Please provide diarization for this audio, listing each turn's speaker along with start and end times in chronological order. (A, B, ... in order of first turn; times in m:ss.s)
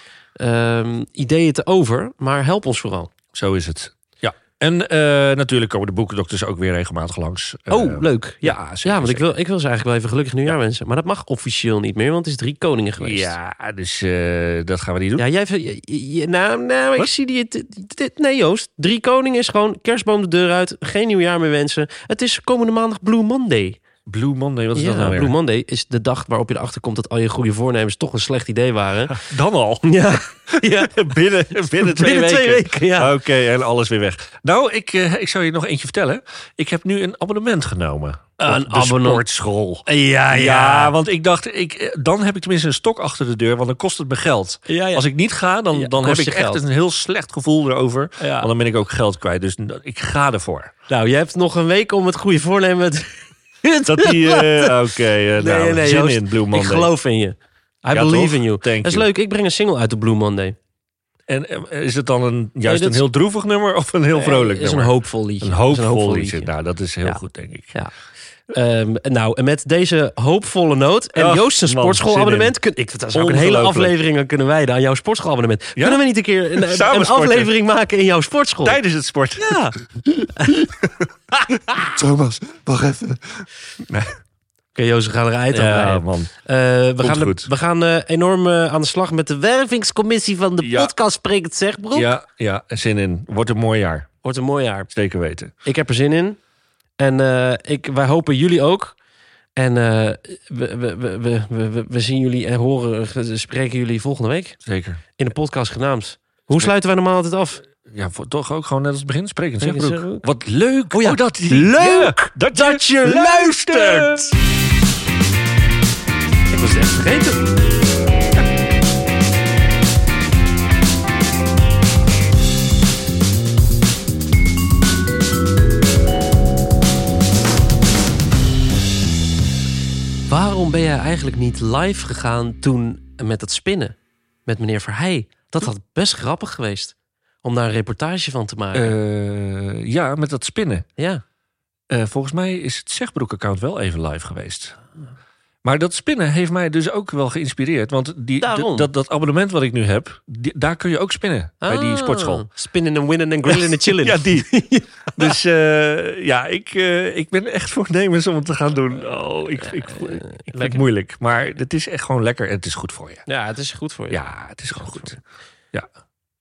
0:00.4-0:03.1 A
0:03.3-0:09.3 B
0:07.7-0:13.4 A
0:13.0-0:15.2 B
0:15.2-0:23.8 A
0:24.1-0:25.3 B
0:24.7-0:29.2 A
0:29.1-0:29.9 B
0:29.8-0:30.9 A
0:30.5-0:50.7 B
0:31.8-0:33.1 A
0:38.4-0:39.2 A
0:39.8-0:40.9 A
0:44.7-0:45.0 A
0:45.7-0:46.6 A
0:48.2-0:48.5 A
0:50.9-0:54.7 A
0:53.8-0:56.9 B
0:55.4-1:00.6 A
0:57.9-0:59.1 B
1:01.3-1:07.8 B
1:02.6-1:03.0 A
1:04.1-1:06.5 A
1:08.5-1:18.8 A
1:11.2-1:12.6 B
1:13.1-1:13.9 B
1:15.8-1:16.0 B
1:16.6-1:17.5 B
1:18.6-1:19.6 B
1:19.4-1:19.8 A
1:20.3-1:20.6 A
1:21.8-1:24.1 B
1:24.7-1:32.1 A
1:25.5-1:26.3 B
1:27.0-1:27.5 B
1:30.6-1:30.9 B
1:31.9-1:34.1 B
1:34.2-1:34.9 A
1:34.9-1:35.5 B
1:35.6-1:36.4 A
1:37.0-1:38.9 A
1:39.6-1:44.6 A
1:44.6-1:45.0 B
1:45.2-1:47.6 A
1:47.8-1:54.3 B
1:49.6-1:50.2 A
1:50.9-1:54.3 A
1:56.5-1:57.4 A
2:10.3-2:13.9 A
2:14.4-2:18.9 A
2:18.7-2:20.8 B
2:21.0-2:21.2 A
2:21.9-2:24.8 B
2:25.6-2:32.5 B
2:28.4-2:28.9 A
2:31.6-2:35.3 A
2:33.5-2:34.6 B
2:35.1-2:43.2 B
2:40.4-2:40.8 A
2:43.3-2:44.2 A
2:44.1-2:45.2 B